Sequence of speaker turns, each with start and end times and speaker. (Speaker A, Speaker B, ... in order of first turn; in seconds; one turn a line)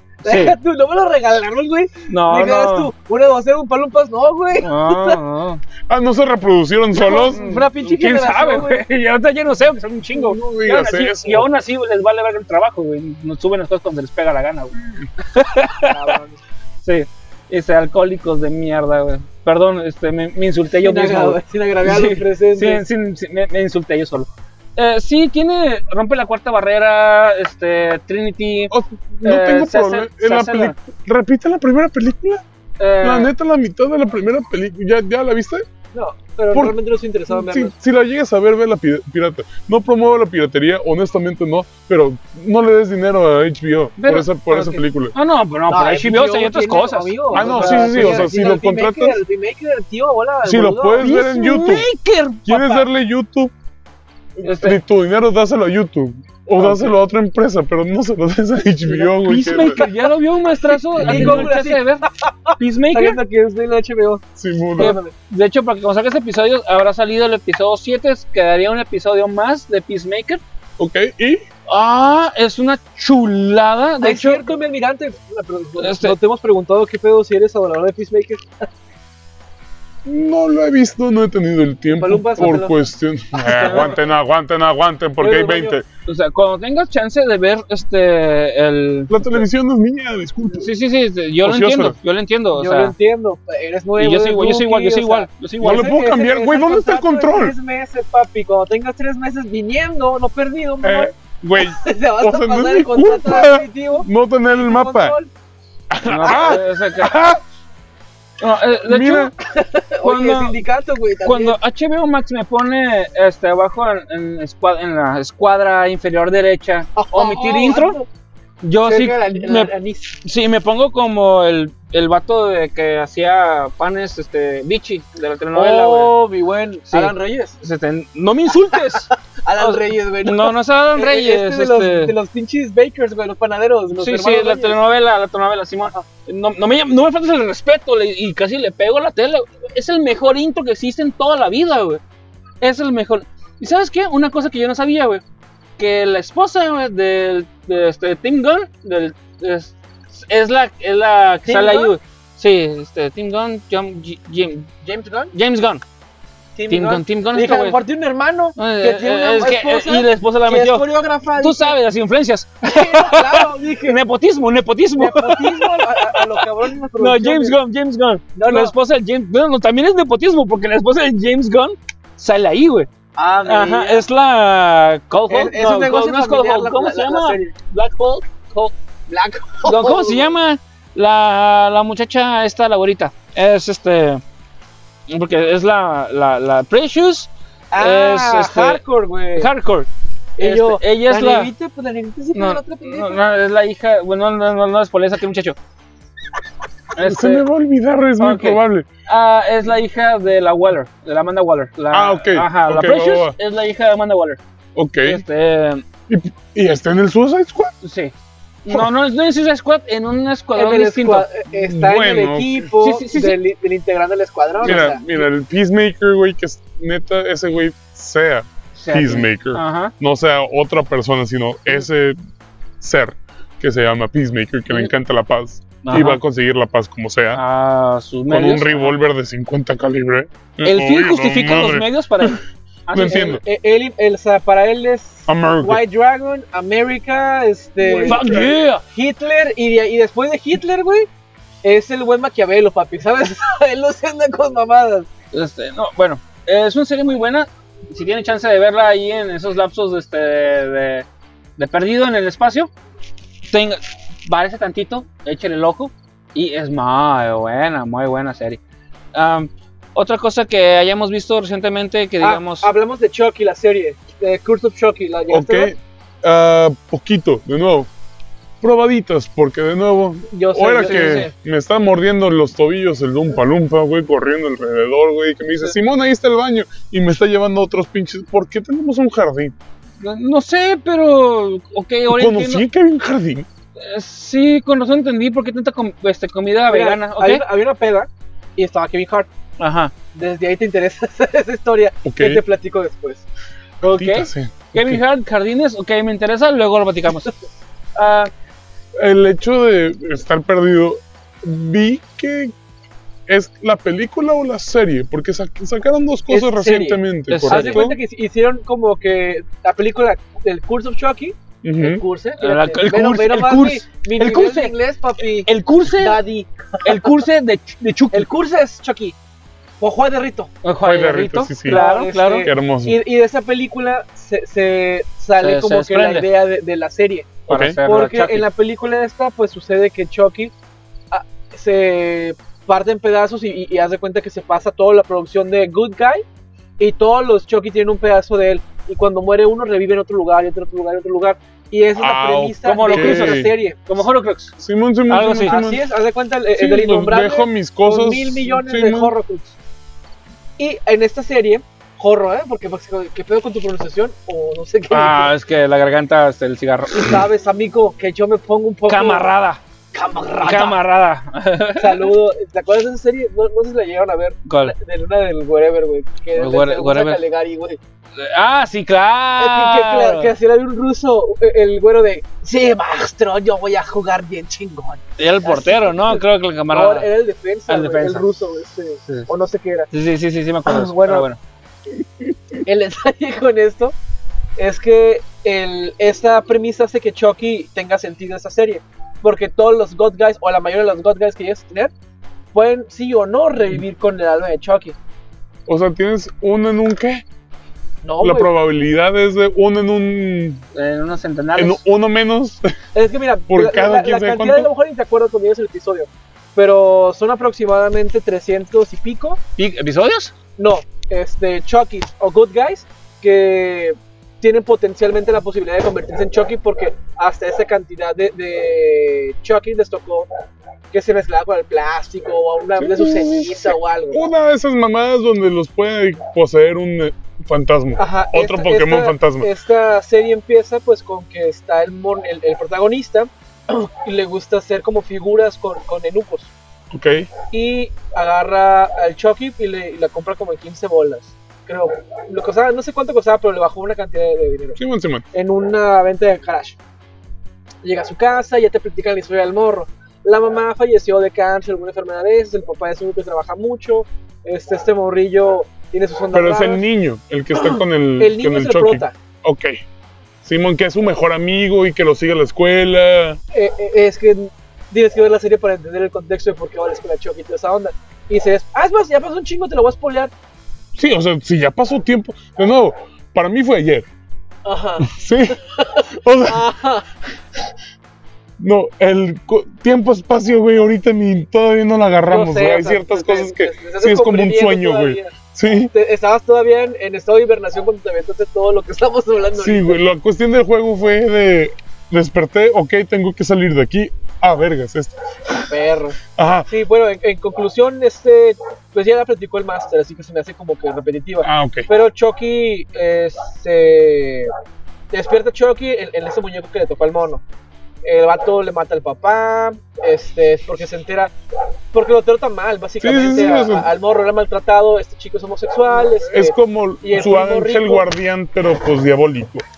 Speaker A: 0.2-5.2
Speaker B: 0.2-0.5
Speaker B: 2.1-2.9
Speaker B: 4.6-5.6
Speaker C: 5.9-7.5
Speaker A: 7.0-8.8
Speaker B: 7.0-16.0
Speaker C: 10.1-11.5
Speaker C: 14.8-15.1
Speaker A: 15.8-16.4
Speaker B: 16.8-28.7
Speaker A: 20.8-22.8
Speaker C: 28.7-32.4
Speaker B: 29.2-30.8
Speaker B: 32.8-33.3
Speaker C: 33.0-35.6
Speaker A: 35.9-37.7
Speaker C: 37.3-45.1
Speaker B: 44.0-48.5
Speaker A: 45.7-51.0
Speaker C: 47.3-49.2
Speaker C: 50.4-51.9
Speaker B: 51.0-52.9
Speaker C: 52.4-53.5
Speaker C: 54.4-59.8
Speaker B: 54.4-54.8
Speaker A: 58.9-60.1
Speaker B: 59.2-62.0
Speaker A: 60.6-64.2
Speaker C: 61.0-61.5
Speaker B: 62.6-63.2
Speaker C: 64.4-64.9
Speaker A: 64.8-65.1
Speaker B: 64.8-70.4
Speaker C: 70.8-71.4
Speaker B: 71.7-74.5
Speaker A: 74.0-78.4
Speaker B: 75.8-76.2
Speaker C: 80.0-85.8
Speaker A: 81.9-84.0
Speaker B: 83.6-83.9
Speaker A: 85.2-85.8
Speaker B: 86.0-89.4
Speaker C: 89.1-90.7
Speaker B: 90.5-92.9
Speaker C: 91.4-92.0
Speaker A: 92.5-105.3
Speaker B: 94.0-95.9
Speaker C: 95.6-97.5
Speaker C: 100.8-105.2
Speaker C: 105.9-107.4
Speaker B: 106.0-107.1
Speaker B: 108.4-109.3
Speaker C: 108.8-109.3
Speaker A: 109.4-111.6
Speaker B: 110.0-110.6
Speaker B: 111.2-118.0
Speaker A: 117.0-118.1
Speaker B: 118.6-126.1
Speaker A: 118.8-120.2
Speaker A: 125.5-127.6
Speaker B: 126.9-132.1
Speaker A: 128.7-134.8
Speaker B: 134.0-142.0
Speaker B: 142.6-145.2
Speaker B: 145.8-154.7
Speaker A: 151.4-151.9
Speaker A: 154.8-155.3
Speaker B: 155.3-155.8
Speaker A: 156.5-161.7
Speaker B: 156.7-157.8
Speaker B: 158.6-166.4
Speaker A: 162.6-164.0
Speaker A: 165.0-167.6
Speaker B: 167.0-172.9
Speaker A: 168.3-168.7
Speaker A: 173.2-174.0
Speaker B: 173.4-178.7
Speaker A: 175.3-177.5
Speaker A: 179.1-180.3
Speaker B: 179.6-184.2
Speaker B: 185.1-188.8
Speaker A: 187.7-189.5
Speaker B: 189.3-191.5
Speaker A: 190.4-193.2
Speaker B: 192.3-195.6
Speaker B: 196.9-197.4
Speaker C: 197.0-198.9
Speaker B: 198.2-204.4
Speaker C: 201.9-203.3
Speaker C: 204.8-205.2
Speaker B: 205.0-205.8
Speaker C: 206.1-207.7
Speaker B: 207.8-211.3
Speaker A: 210.6-215.2
Speaker C: 211.5-212.7
Speaker B: 212.8-213.4
Speaker C: 214.6-222.2
Speaker B: 214.6-214.9
Speaker B: 218.8-219.9
Speaker C: 222.8-227.4
Speaker B: 225.8-226.2
Speaker B: 227.3-229.0
Speaker C: 228.3-232.4
Speaker B: 230.6-233.4
Speaker C: 232.9-233.4
Speaker A: 233.0-241.1
Speaker C: 235.3-235.8
Speaker C: 237.9-238.5
Speaker B: 238.0-238.8
Speaker A: 241.6-245.1
Speaker B: 245.3-252.7
Speaker B: 253.5-258.6
Speaker B: 259.1-262.7
Speaker A: 262.2-265.7
Speaker C: 265.3-267.9
Speaker C: 268.6-279.5
Speaker A: 270.3-271.3
Speaker B: 270.8-271.3
Speaker B: 280.0-282.6
Speaker C: 282.1-283.5
Speaker B: 283.8-287.4
Speaker A: 286.7-289.3
Speaker B: 289.6-289.9
Speaker A: 290.1-293.2
Speaker C: 292.0-292.4
Speaker B: 293.8-297.3
Speaker C: 293.8-295.0
Speaker B: 297.9-298.3
Speaker C: 299.0-302.5
Speaker C: 303.3-308.0
Speaker A: 306.3-317.2
Speaker B: 307.3-307.8
Speaker C: 311.6-312.0
Speaker B: 312.4-314.8
Speaker B: 315.4-316.2
Speaker B: 316.8-318.3
Speaker A: 318.1-319.2
Speaker A: 319.8-320.5
Speaker B: 320.6-322.5
Speaker C: 320.8-321.8
Speaker A: 321.7-330.5
Speaker C: 322.4-323.0
Speaker B: 325.4-326.2
Speaker C: 327.5-327.8
Speaker B: 327.5-328.4
Speaker A: 331.1-336.2
Speaker A: 336.8-344.0
Speaker C: 342.0-343.5
Speaker B: 342.6-344.5
Speaker C: 344.6-345.8
Speaker B: 345.1-345.6
Speaker A: 345.4-349.6
Speaker C: 346.5-349.1
Speaker A: 350.6-355.3
Speaker B: 354.9-357.2
Speaker A: 356.9-359.3
Speaker B: 358.9-359.6
Speaker A: 359.9-360.8
Speaker B: 360.4-362.1
Speaker A: 361.8-367.8
Speaker B: 364.4-364.7
Speaker B: 366.3-367.2
Speaker B: 368.2-370.3
Speaker A: 369.4-379.9
Speaker B: 375.2-377.1
Speaker B: 377.7-378.3
Speaker B: 379.9-381.4
Speaker A: 380.6-381.3
Speaker A: 382.6-383.9
Speaker A: 384.6-391.9
Speaker A: 392.5-394.9
Speaker C: 395.7-397.2
Speaker A: 398.0-398.5
Speaker C: 398.2-400.6
Speaker B: 400.7-401.8
Speaker C: 401.6-402.7
Speaker A: 402.9-409.4
Speaker C: 403.5-404.7
Speaker B: 409.6-410.3
Speaker A: 410.6-420.3
Speaker A: 420.9-424.3
Speaker C: 422.8-429.5
Speaker A: 428.0-436.5
Speaker C: 436.9-437.3
Speaker A: 437.5-444.8
Speaker C: 444.8-445.2
Speaker A: 445.3-446.8
Speaker A: 447.8-456.8
Speaker C: 456.3-459.7
Speaker A: 457.5-459.1
Speaker C: 460.4-463.4
Speaker A: 463.5-470.3
Speaker C: 470.9-474.1
Speaker A: 474.6-477.1
Speaker C: 475.0-476.7
Speaker C: 478.6-485.9
Speaker A: 482.3-485.3
Speaker A: 485.9-490.0
Speaker C: 489.6-495.8
Speaker A: 495.7-504.5
Speaker C: 496.4-496.7
Speaker C: 501.4-501.9
Speaker A: 505.1-507.4
Speaker A: 508.0-511.3
Speaker A: 511.9-518.1
Speaker C: 513.0-513.9
Speaker C: 516.3-519.6